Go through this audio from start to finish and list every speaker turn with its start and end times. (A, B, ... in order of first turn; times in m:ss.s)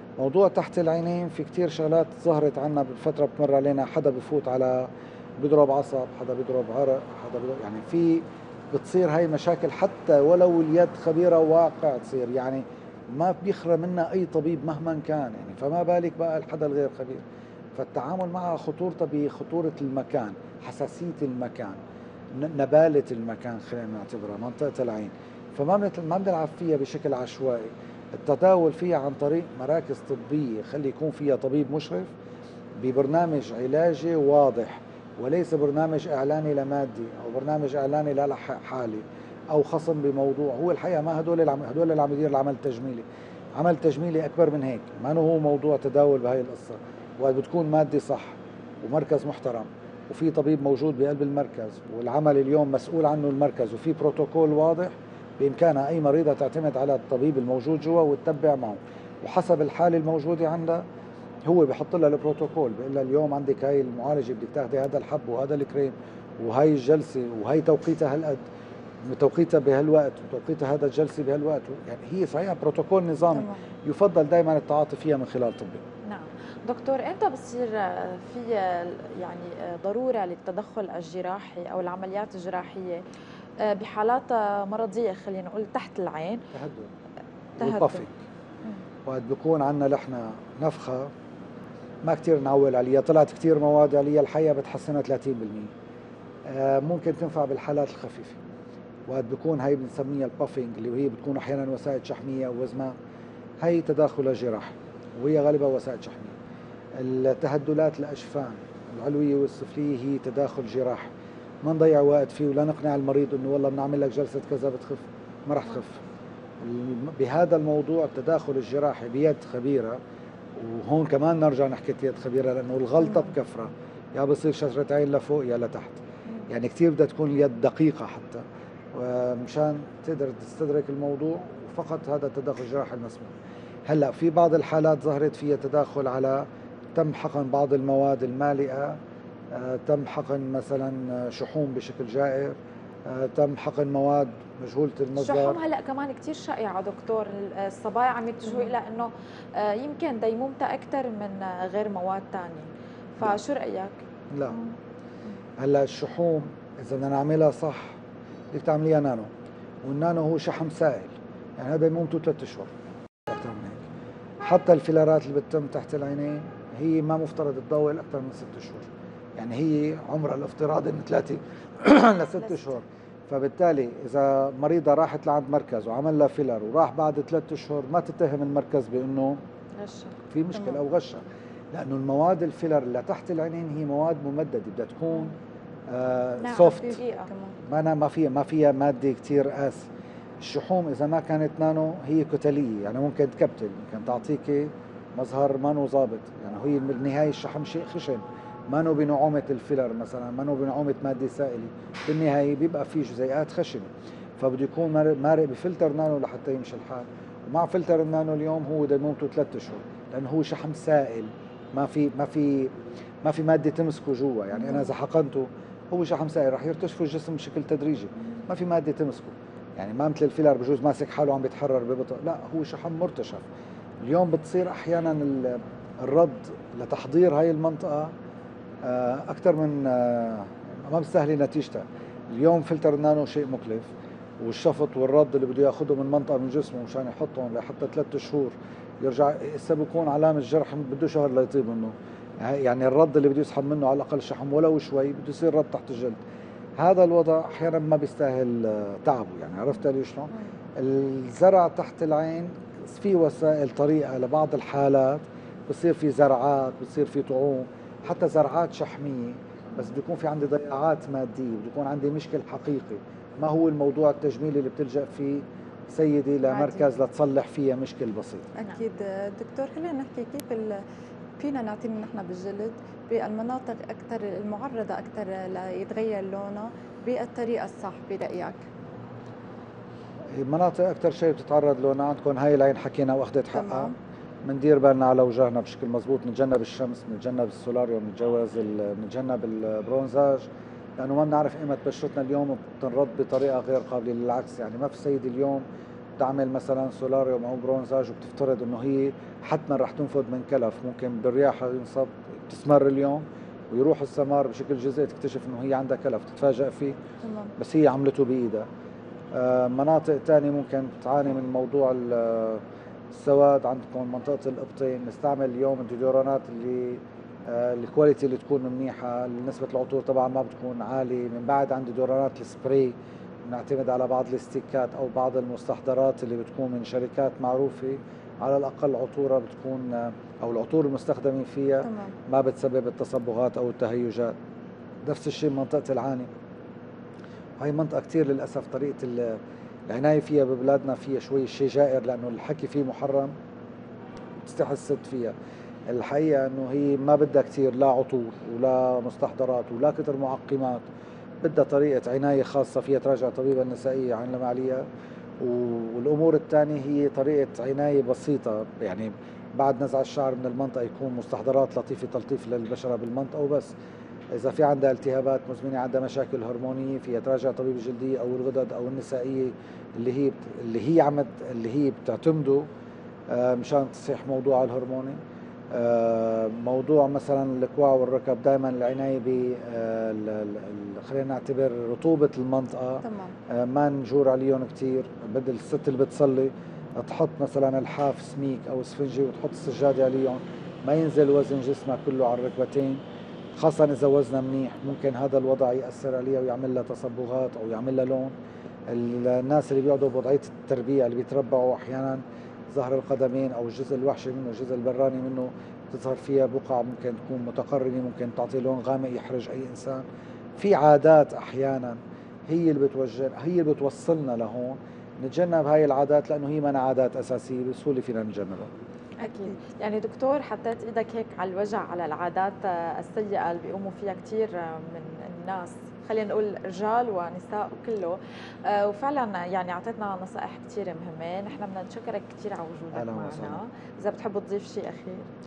0:00.2-0:04.9 A
0:05.4-0:17.2 A
0:17.8-0:21.8 A
0:22.3-0:32.1 A
0:32.8-0:43.0 A
0:43.6-1:00.8 A
1:01.5-1:08.4 A
1:09.0-1:15.8 A
1:13.3-1:13.6 B
1:16.1-1:23.0 C
1:23.6-1:26.4 C
1:26.5-1:26.9 A
1:27.6-1:28.0 C
1:27.6-1:28.2 A
1:29.0-1:31.1 A
1:32.0-1:35.7 A
1:36.5-1:38.4 A
1:39.1-1:43.0 A
1:43.6-1:46.4 A
1:47.0-1:51.1 A
1:51.6-1:56.0 A
1:56.6-2:00.0 A
2:00.6-2:13.4 A
2:03.0-2:03.3 B
2:13.9-2:19.0 A
2:19.5-2:25.6 A
2:25.2-2:34.0 C
2:34.3-2:34.6 A
2:35.6-2:38.0 A
2:38.5-2:39.3 A
2:39.8-2:42.7 A
2:43.3-2:43.9 A
2:44.4-2:59.4 A
2:52.4-2:52.8 C
2:59.8-3:00.2 C
3:00.3-3:05.4 A
3:00.6-3:00.8 B
3:05.9-3:07.0 A
3:06.4-3:07.3 C
3:06.7-3:07.6 B
3:07.7-3:09.9 A
3:10.4-3:43.5 A
3:34.6-3:34.9 B
3:44.0-3:48.1 A
3:48.8-4:06.2 A
4:06.8-4:28.5 A
4:26.5-4:26.8 B
4:28.6-4:30.7 B
4:31.4-4:38.6 B
4:40.3-4:43.9 A
4:43.5-4:43.9 B
4:44.4-4:55.6 A
4:56.2-5:07.0 A
5:07.2-5:07.5 B
5:07.6-5:08.7 A
5:09.3-5:34.4 A
5:31.8-5:32.1 B
5:35.0-5:36.3 A
5:37.6-5:43.3 A
5:44.4-5:45.3 A
5:45.9-5:50.9 A
5:51.4-5:54.8 A
5:55.4-6:03.7 A
6:04.3-6:12.7 A
6:13.3-6:15.2 A
6:15.7-6:33.0 A
6:23.0-6:23.4 B
6:33.6-6:38.3 A
6:38.9-6:50.0 A
6:50.6-6:58.7 A
6:59.2-7:15.3 C
6:59.2-6:59.6 B
7:12.9-7:13.6 A